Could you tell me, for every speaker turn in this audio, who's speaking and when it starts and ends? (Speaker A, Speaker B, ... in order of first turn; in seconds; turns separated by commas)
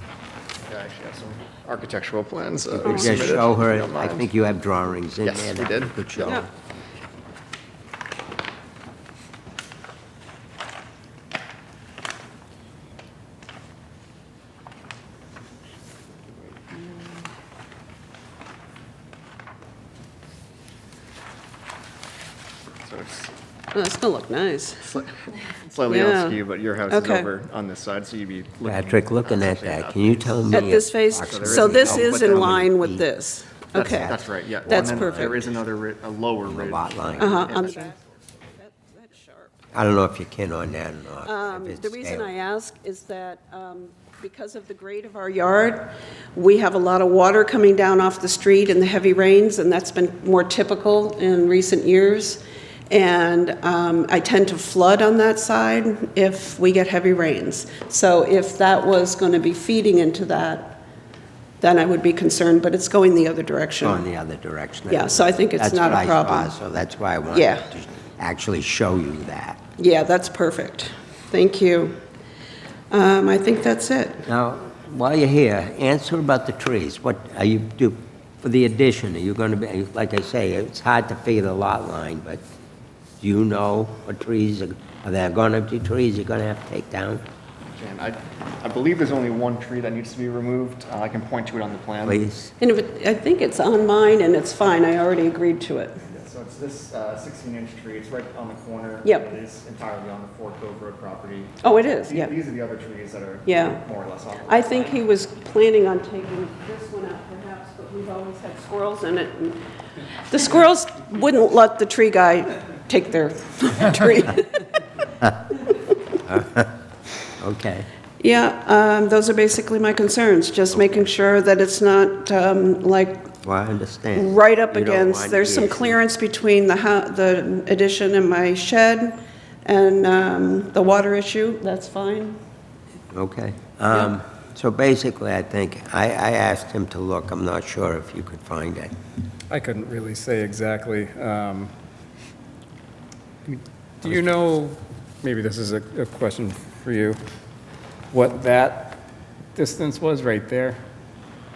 Speaker A: 0.7-4.3, Speaker B: 2.8-6.5, Speaker C: 2.8-3.4, Speaker A: 5.2-6.4, Speaker A: 22.8-23.3, Speaker C: 23.7-24.9, Speaker A: 24.9-30.5, Speaker C: 25.9-26.4, Speaker C: 26.9-27.3, Speaker B: 28.6-33.0, Speaker C: 30.5-35.5, Speaker A: 31.2-32.7, Speaker A: 33.7-38.0, Speaker B: 34.7-35.4, Speaker B: 36.5-37.6, Speaker C: 37.2-38.0, Speaker C: 38.5-39.6, Speaker B: 39.7-42.3, Speaker C: 41.2-60.8, Speaker C: 61.6-64.1, Speaker B: 63.8-69.6, Speaker C: 64.9-66.5, Speaker C: 67.3-67.7, Speaker C: 69.8-72.0, Speaker C: 72.9-74.2, Speaker B: 74.2-82.4, Speaker B: 83.2-87.2, Speaker A: 87.7-92.2, Speaker B: 92.0-92.5, Speaker C: 92.6-96.0, Speaker A: 96.1-104.9, Speaker C: 99.0-99.3, Speaker C: 101.6-102.3, Speaker C: 103.5-103.8, Speaker C: 104.5-109.6, Speaker C: 110.3-114.8, Speaker B: 116.2-116.7, Speaker B: 117.4-117.9, Speaker C: 118.2-123.3, Speaker B: 120.7-121.0, Speaker B: 123.4-126.0, Speaker C: 124.1-132.4, Speaker B: 133.1-138.9, Speaker D: 139.5-141.7, Speaker D: 143.4-147.2, Speaker D: 148.1-149.0, Speaker D: 149.5-150.8